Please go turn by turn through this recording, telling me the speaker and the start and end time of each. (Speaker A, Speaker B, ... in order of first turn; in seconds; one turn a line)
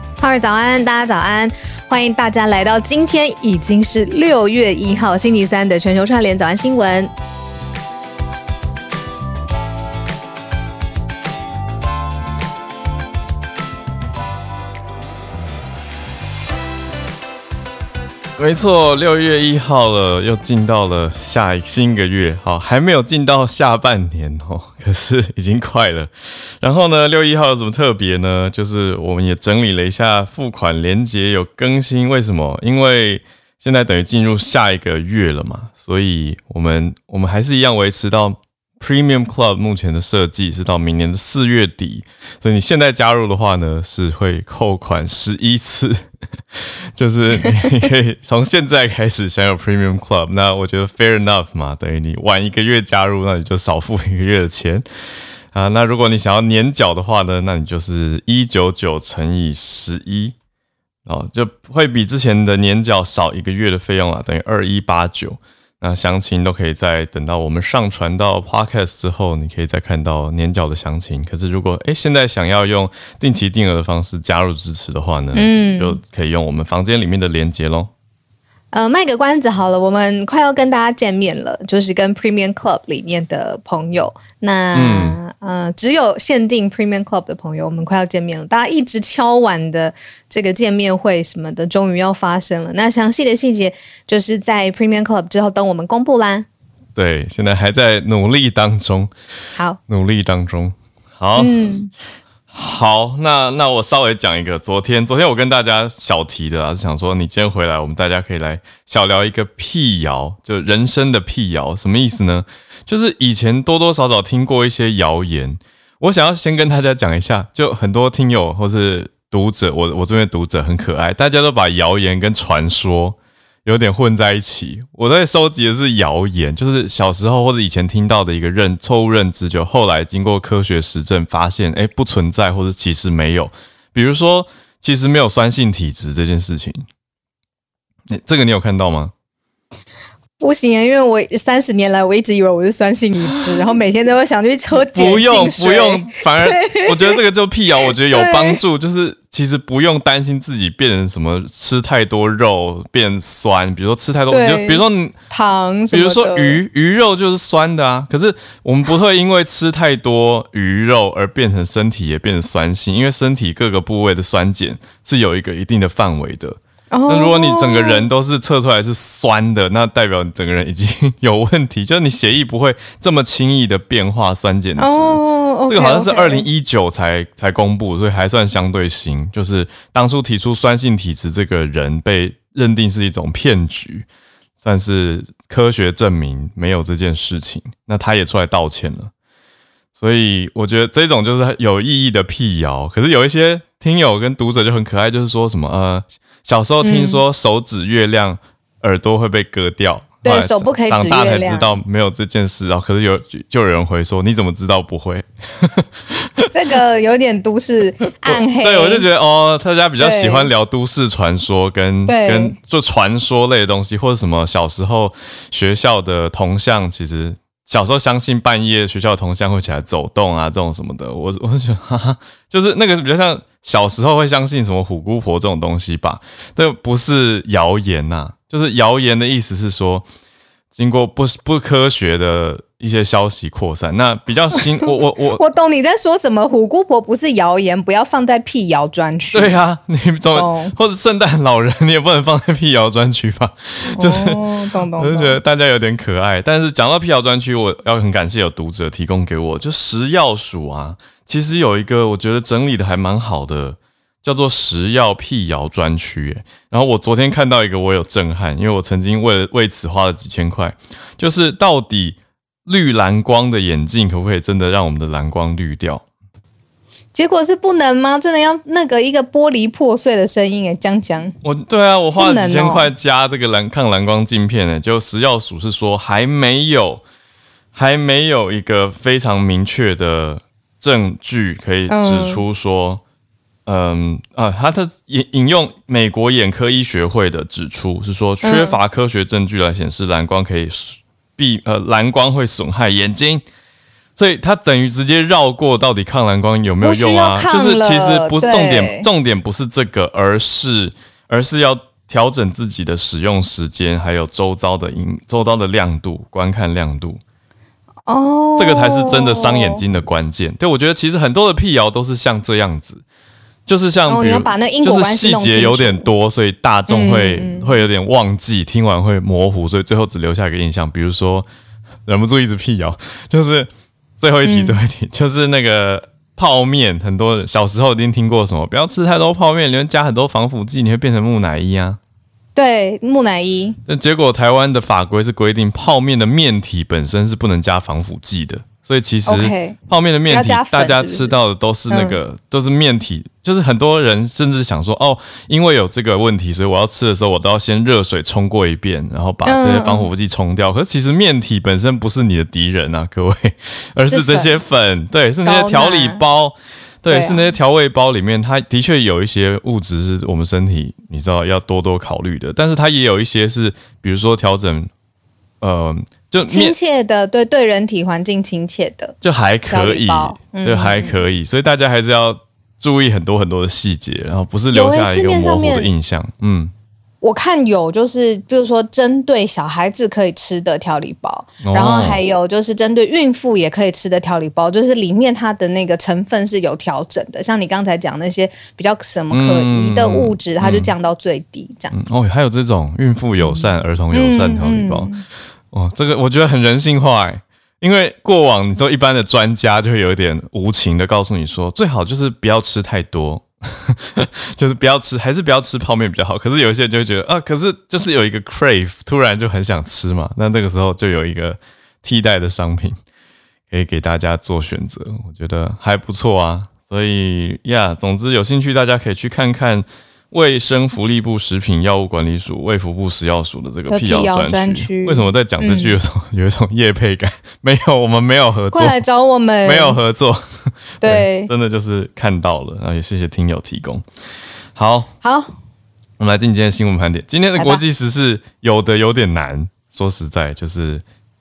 Speaker A: 0.2-7.1
Speaker B: 18.4-54.9
Speaker B: 55.5-60.3
Speaker B: 61.0-77.9
Speaker A: 75.3-76.0
Speaker A: 78.7-96.5
Speaker B: 84.7-85.2
Speaker B: 96.9-99.1
Speaker B: 99.9-101.5
Speaker A: 101.3-101.9
Speaker B: 102.5-136.8
Speaker B: 138.1-139.1
Speaker A: 140.4-147.2
Speaker B: 144.7-155.2
Speaker A: 148.1-148.6
Speaker A: 154.3-156.6
Speaker B: 155.9-184.1
Speaker A: 166.9-168.1
Speaker A: 174.8-176.5
Speaker B: 184.6-189.1
Speaker B: 190.0-206.5
Speaker A: 196.8-197.2
Speaker A: 200.2-201.7
Speaker A: 206.5-209.1
Speaker B: 208.2-230.1
Speaker A: 210.0-210.5
Speaker A: 212.1-212.6
Speaker B: 230.8-235.4
Speaker A: 234.5-239.6
Speaker B: 239.3-266.0
Speaker A: 240.3-240.7
Speaker A: 243.9-245.4
Speaker A: 267.1-271.3
Speaker B: 271.4-277.0
Speaker A: 272.2-272.9
Speaker B: 277.7-283.0
Speaker A: 281.9-282.4
Speaker B: 283.6-293.4
Speaker A: 288.4-288.8
Speaker B: 294.2-307.2
Speaker A: 296.8-299.1
Speaker A: 308.1-309.8
Speaker B: 308.6-313.0
Speaker B: 313.6-321.5
Speaker A: 314.1-316.1
Speaker A: 316.9-317.7
Speaker B: 322.1-332.0
Speaker A: 324.4-324.8
Speaker A: 332.5-333.8
Speaker B: 333.9-364.9
Speaker A: 339.2-339.8
Speaker A: 340.3-341.3
Speaker A: 341.9-342.2
Speaker A: 349.4-350.1
Speaker A: 354.0-354.5
Speaker A: 355.4-356.2
Speaker A: 357.1-357.5
Speaker B: 365.6-366.8
Speaker A: 366.5-369.1
Speaker B: 369.2-376.7
Speaker A: 369.7-371.2
Speaker A: 374.7-375.9
Speaker A: 377.2-391.9
Speaker B: 381.6-382.2
Speaker B: 389.3-390.9
Speaker B: 391.9-395.1
Speaker A: 393.4-395.2
Speaker B: 395.7-413.0
Speaker B: 413.7-429.0
Speaker A: 423.9-426.0
Speaker A: 428.7-430.0
Speaker B: 429.6-434.1
Speaker A: 431.0-431.5
Speaker B: 434.7-435.1
Speaker A: 435.2-435.5
Speaker B: 436.2-441.0
Speaker A: 437.6-437.8